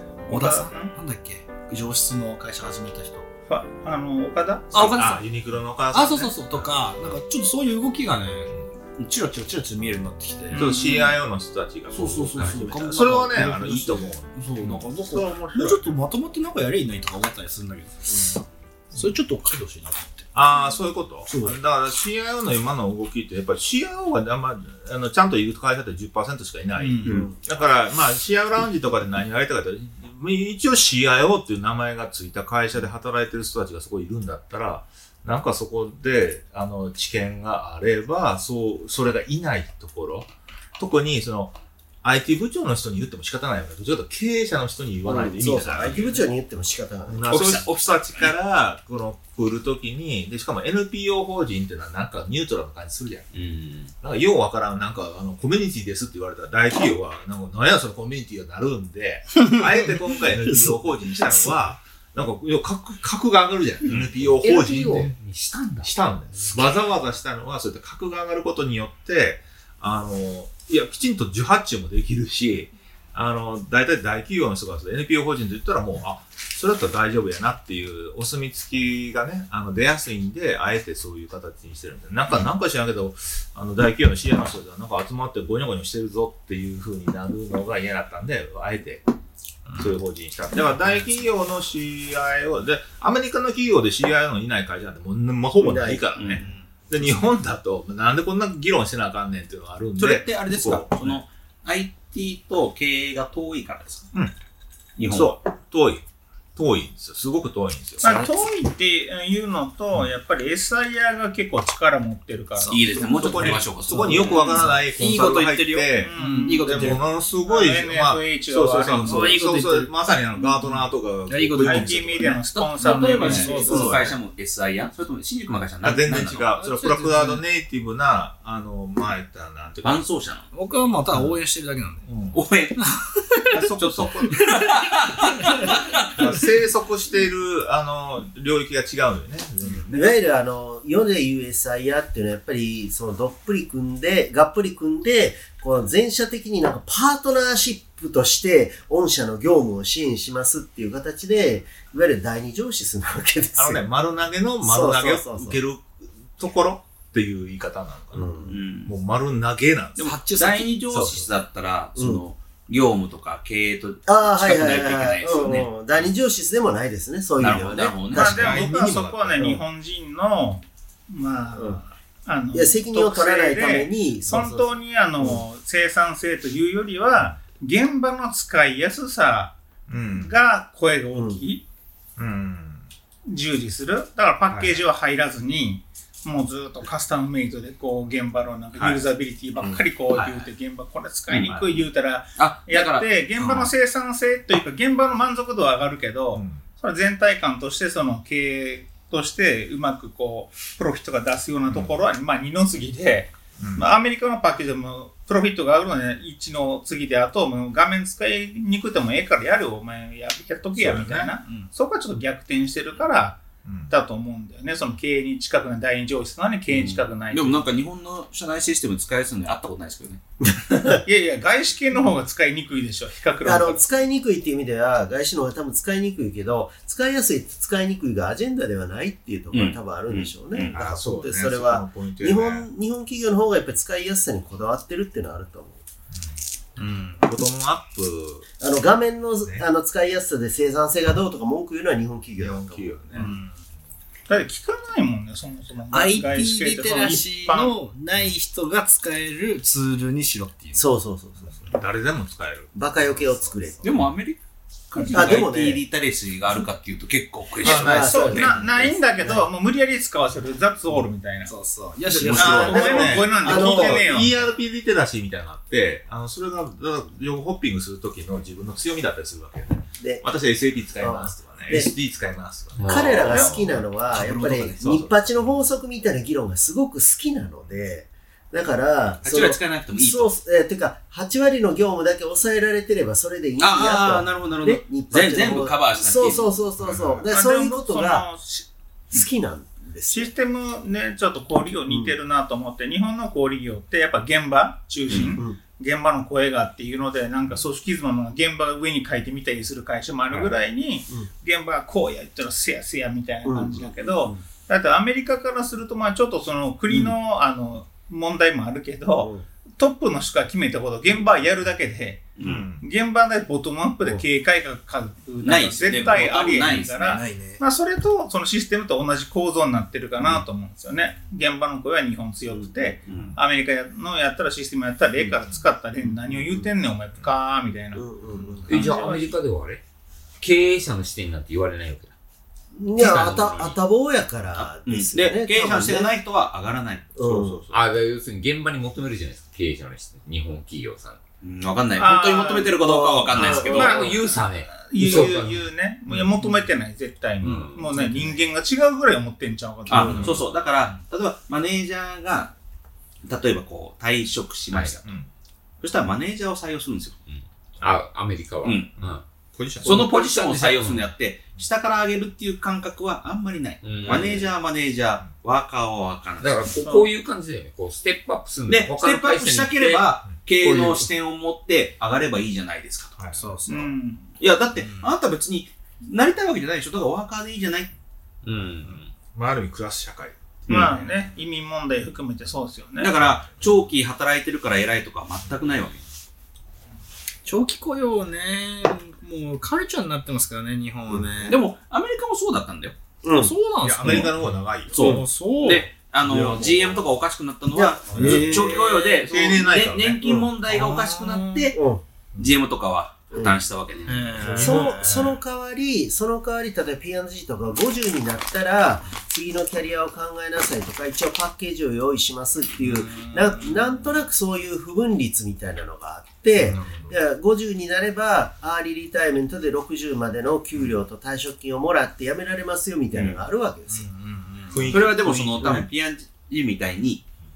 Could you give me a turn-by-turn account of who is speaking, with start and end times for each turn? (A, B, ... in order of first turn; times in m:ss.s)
0:00.3-0:03.3 A
0:00.3-0:00.9 B
0:03.5-0:04.7 B
0:04.7-0:05.3 A
0:04.7-0:07.1 C
0:05.9-0:11.1 A
0:10.5-0:16.0 C
0:10.5-0:11.1 B
0:11.9-0:20.3 A
0:20.3-0:46.1 C
0:21.3-0:21.5 A
0:26.8-0:27.1 B
0:27.1-0:27.3 D
0:45.0-0:47.3 D
0:47.1-0:53.3 C
0:47.3-0:48.3 E
0:53.3-0:53.9 F
0:54.0-1:05.2 C
0:59.4-1:01.7 A
1:03.8-1:04.1 E
1:04.4-1:05.9 F
1:05.8-1:29.0 C
1:29.7-1:30.0 A
1:29.8-1:41.2 C
1:35.6-1:36.0 D
1:36.2-1:36.5 E
1:40.0-1:44.1 E
1:45.0-1:45.3 E
1:45.0-1:46.0 C
1:46.6-1:48.2 C
1:48.0-1:53.0 B
1:52.6-1:57.1 A
1:52.7-1:54.7 E
1:53.0-2:02.4 C
1:54.4-1:54.6 B
1:56.0-1:59.3 B
1:56.7-1:57.0 E
1:59.0-2:04.2 A
2:01.6-2:04.0 B
2:02.8-2:06.5 E
2:03.3-2:04.1 C
2:05.8-2:10.1 C
2:06.5-2:07.5 A
2:09.8-2:10.5 E
2:10.5-2:12.1 A
2:12.0-2:12.4 C
2:12.3-2:12.8 E
2:12.8-2:13.7 A
2:13.5-2:14.4 C
2:13.8-2:16.2 E
2:14.4-2:15.1 A
2:16.1-2:20.2 C
2:19.9-2:33.8 D
2:33.6-2:40.2 C
2:34.6-2:35.6 D
2:38.1-2:38.5 D
2:38.5-2:38.9 E
2:40.0-2:46.1 E
2:40.0-2:41.1 A
2:44.1-2:48.6 D
2:47.4-2:48.6 E
2:48.1-2:59.6 B
2:48.2-2:49.5 C
2:52.5-2:55.4 D
2:59.9-3:00.4 C
3:00.1-3:01.6 B
3:01.2-3:01.4 D
3:02.2-3:02.8 C
3:03.3-3:37.7 B
3:04.5-3:04.8 C
3:08.8-3:09.1 C
3:10.1-3:10.5 C
3:11.5-3:11.9 C
3:12.4-3:13.1 E
3:16.3-3:16.6 C
3:21.7-3:22.0 C
3:23.6-3:23.9 C
3:30.8-3:31.3 C
3:33.6-3:33.9 C
3:36.7-3:40.2 E
3:40.4-3:41.0 D
3:41.0-3:43.8 B
3:43.4-3:55.8 D
3:49.5-3:50.8 E
3:50.7-3:52.7 C
3:56.8-3:57.2 A
3:57.2-3:58.5 C
3:58.6-4:03.2 D
4:02.4-4:03.3 C
4:03.1-4:03.5 A
4:04.3-4:07.7 B
4:05.9-4:10.8 A
4:10.8-4:11.7 D
4:11.5-4:13.3 C
4:12.8-4:13.9 D
4:13.8-4:14.4 E
4:14.9-4:18.6 E
4:15.0-4:15.4 B
4:15.1-4:15.8 D
4:17.6-4:19.5 D
4:17.6-4:21.5 B
4:21.4-4:23.4 A
4:22.2-4:35.6 C
4:22.3-4:24.4 B
4:22.6-4:24.1 D
4:30.0-4:30.2 D
4:31.0-4:31.9 D
4:32.8-4:33.5 F
4:32.8-4:48.3 D
4:34.1-4:34.9 E
4:39.2-4:40.3 E
4:43.6-4:46.6 E
4:46.8-4:47.3 C
4:47.3-4:49.3 B
4:49.1-4:50.3 D
4:50.1-5:12.3 B
4:51.9-4:52.1 D
4:55.1-4:55.4 E
5:03.5-5:04.4 D
5:12.4-5:12.7 E
5:12.4-5:12.8 C
5:12.8-5:29.4 B
5:15.4-5:17.2 E
5:16.6-5:17.6 A
5:23.1-5:23.4 E
5:23.1-5:23.4 C
5:28.0-5:28.9 D
5:28.7-5:29.8 F
5:30.4-5:32.1 F
5:32.8-5:36.1 D
5:33.0-5:33.8 E
5:34.5-5:37.2 E
5:37.2-5:37.6 D
5:37.2-5:37.6 C
5:37.7-5:41.2 F
5:41.4-5:44.2 E
5:42.0-5:42.8 B
5:42.8-5:44.0 D
5:43.3-5:45.6 F
5:43.6-5:50.4 B
5:46.1-5:46.6 C
5:47.4-5:47.8 F
5:47.6-5:48.3 C
5:49.9-5:52.5 E
5:50.0-5:50.5 C
5:53.2-5:55.0 E
5:55.0-5:55.3 C
5:55.8-5:57.2 E
5:57.3-5:59.2 F
5:58.6-5:58.9 E
5:59.0-6:01.1 C
5:59.8-6:06.6 E
6:00.1-6:00.6 F
6:03.8-6:04.5 F
6:04.0-6:04.5 C
6:06.4-6:11.1 F
6:06.8-6:07.1 B
6:08.7-6:13.2 E
6:13.2-6:13.4 C
6:13.3-6:13.9 A
6:13.7-6:14.3 B
6:14.4-6:17.9 E
6:14.7-6:15.1 A
6:18.4-6:19.1 F
6:19.3-6:21.1 C
6:20.7-6:21.0 E
6:20.7-6:23.1 B
6:23.0-6:26.0 E
6:23.3-6:23.6 C
6:27.4-6:31.6 A
6:31.5-6:33.0 E
6:33.2-6:33.5 D
6:33.3-6:36.7 A
6:33.8-6:35.0 C
6:34.9-6:41.8 E
6:36.2-6:37.0 C
6:37.7-6:39.1 D
6:38.1-6:38.8 A
6:38.2-6:38.7 C
6:39.2-6:40.3 C
6:40.2-6:40.5 D
6:40.8-6:41.7 A
6:41.7-6:42.0 D
6:42.4-6:44.4 E
6:44.0-6:45.4 A
6:44.4-6:45.2 C
6:44.6-7:04.1 D
6:52.8-6:53.9 A
6:56.6-6:57.1 A
7:03.9-7:05.0 A
7:04.7-7:05.9 C
7:04.9-7:07.2 E